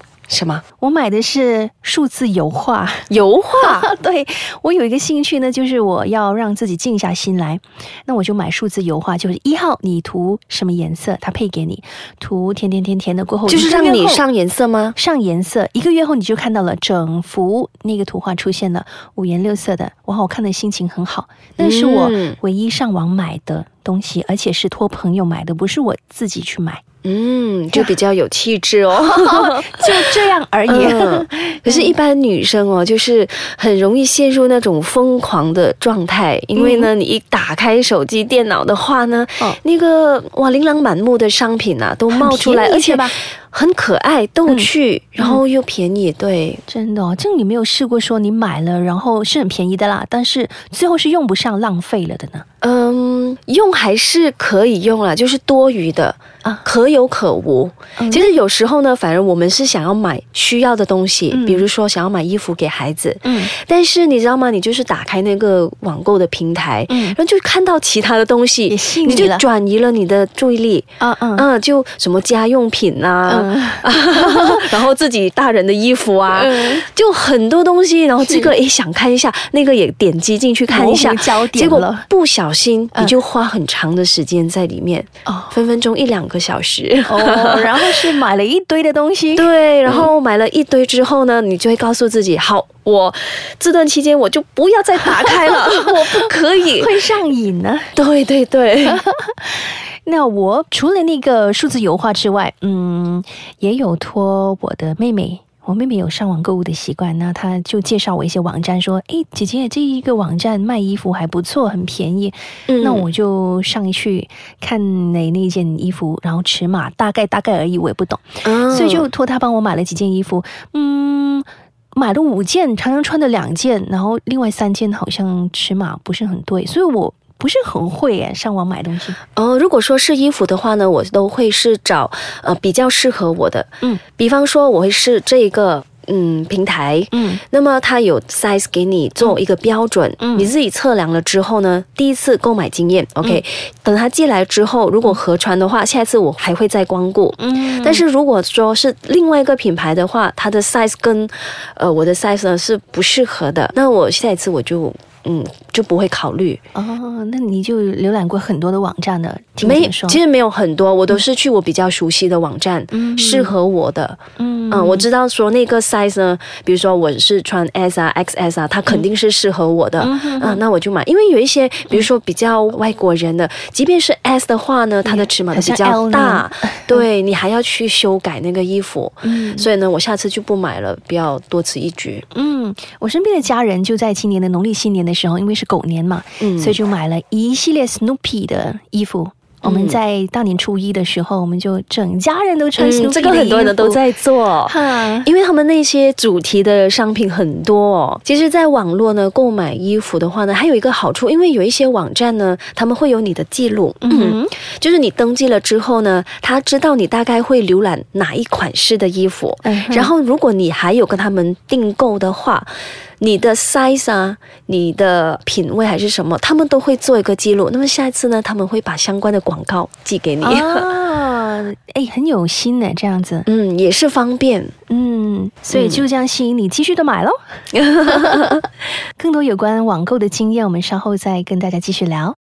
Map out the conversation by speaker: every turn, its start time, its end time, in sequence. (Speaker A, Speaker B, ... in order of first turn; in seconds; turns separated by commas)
Speaker A: 0.3-0.6, Speaker B: 0.8-14.2, Speaker A: 3.1-3.9, Speaker A: 13.4-15.0, Speaker B: 14.9-26.8, Speaker A: 21.6-22.4, Speaker A: 27.0-46.6, Speaker B: 28.9-31.9, Speaker B: 36.5-36.9, Speaker B: 42.1-43.1, Speaker B: 44.5-45.4, Speaker B: 46.7-52.5, Speaker A: 52.6-88.2, Speaker B: 58.0-58.3, Speaker B: 61.3-61.7, Speaker B: 63.2-63.5, Speaker B: 66.9-67.2, Speaker B: 68.7-69.5, Speaker B: 71.0-71.5, Speaker B: 73.2-74.7, Speaker B: 76.3-76.8, Speaker B: 78.2-78.5, Speaker B: 80.7-82.1, Speaker B: 85.2-85.5, Speaker B: 87.0-90.1, Speaker A: 89.3-97.0, Speaker B: 95.4-96.2, Speaker B: 96.8-97.9, Speaker A: 97.9-99.0, Speaker B: 98.8-129.2, Speaker A: 112.7-113.1, Speaker A: 118.4-119.1, Speaker A: 129.3-156.6, Speaker B: 137.1-137.4, Speaker B: 140.2-140.5, Speaker B: 147.4-148.0, Speaker B: 156.7-160.2, Speaker A: 159.6-182.2, Speaker B: 162.9-163.5, Speaker B: 164.4-165.1, Speaker B: 170.0-170.6, Speaker B: 175.0-177.0, Speaker B: 179.2-179.7, Speaker B: 182.3-194.0, Speaker A: 186.4-186.8, Speaker A: 189.6-190.0, Speaker A: 192.8-220.9, Speaker B: 194.7-195.3, Speaker B: 204.0-204.5, Speaker B: 209.6-210.1, Speaker B: 220.4-223.5, Speaker A: 223.4-224.7, Speaker B: 224.9-227.4, Speaker A: 225.7-226.0, Speaker A: 227.7-228.6, Speaker B: 229.2-232.3